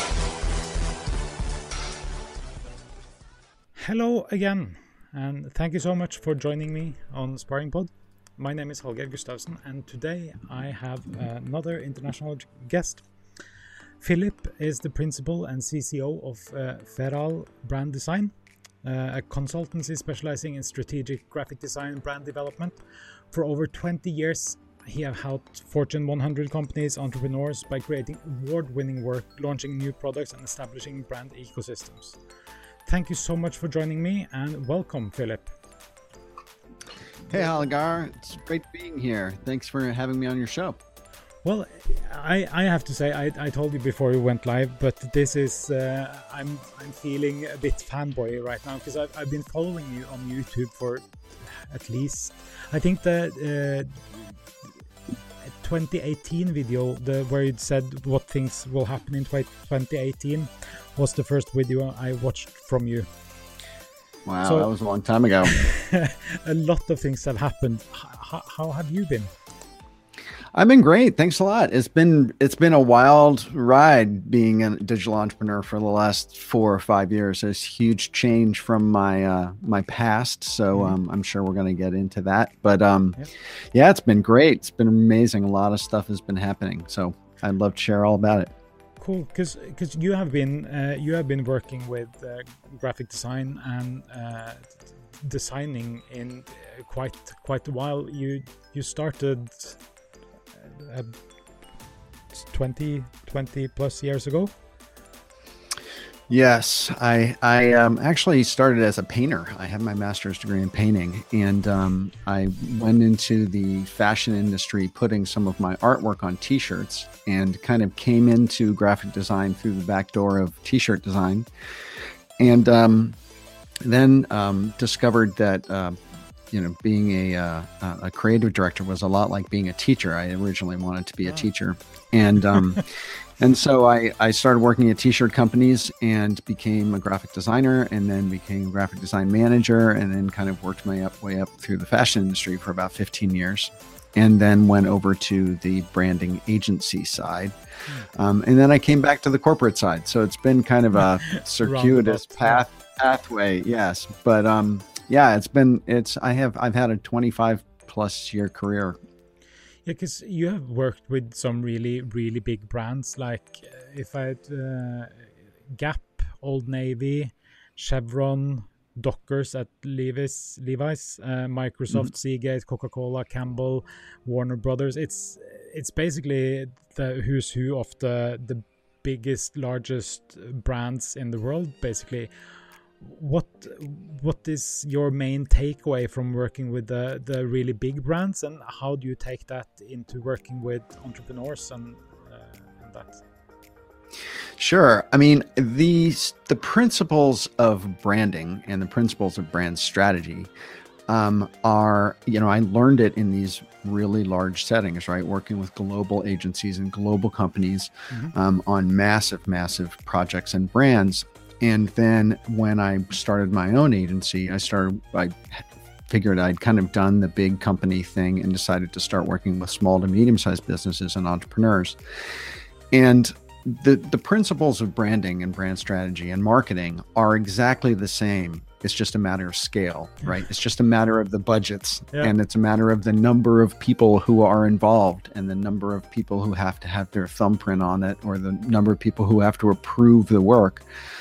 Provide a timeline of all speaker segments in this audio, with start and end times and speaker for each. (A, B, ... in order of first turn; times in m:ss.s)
0:03.8-0:13.1 A
0:14.0-0:22.8 A
0:23.3-0:32.2 A
0:32.8-0:35.5 A
0:37.3-0:40.8 B
0:41.4-0:54.4 A
0:55.5-1:03.1 A
1:04.2-1:05.6 B
1:04.4-1:04.7 A
1:05.5-1:09.3 A
1:10.5-1:23.2 B
1:23.7-1:28.5 B
1:29.0-1:39.8 A
1:40.6-1:41.2 A
1:42.4-1:44.5 A
1:46.3-2:01.5 B
2:02.4-2:03.2 B
2:03.8-2:27.6 B
2:12.5-2:12.8 A
2:28.1-2:39.0 B
2:31.4-2:32.6 A
2:39.8-3:13.2 A
3:14.6-3:20.5 B
3:21.1-3:42.0 B
3:42.9-4:00.8 B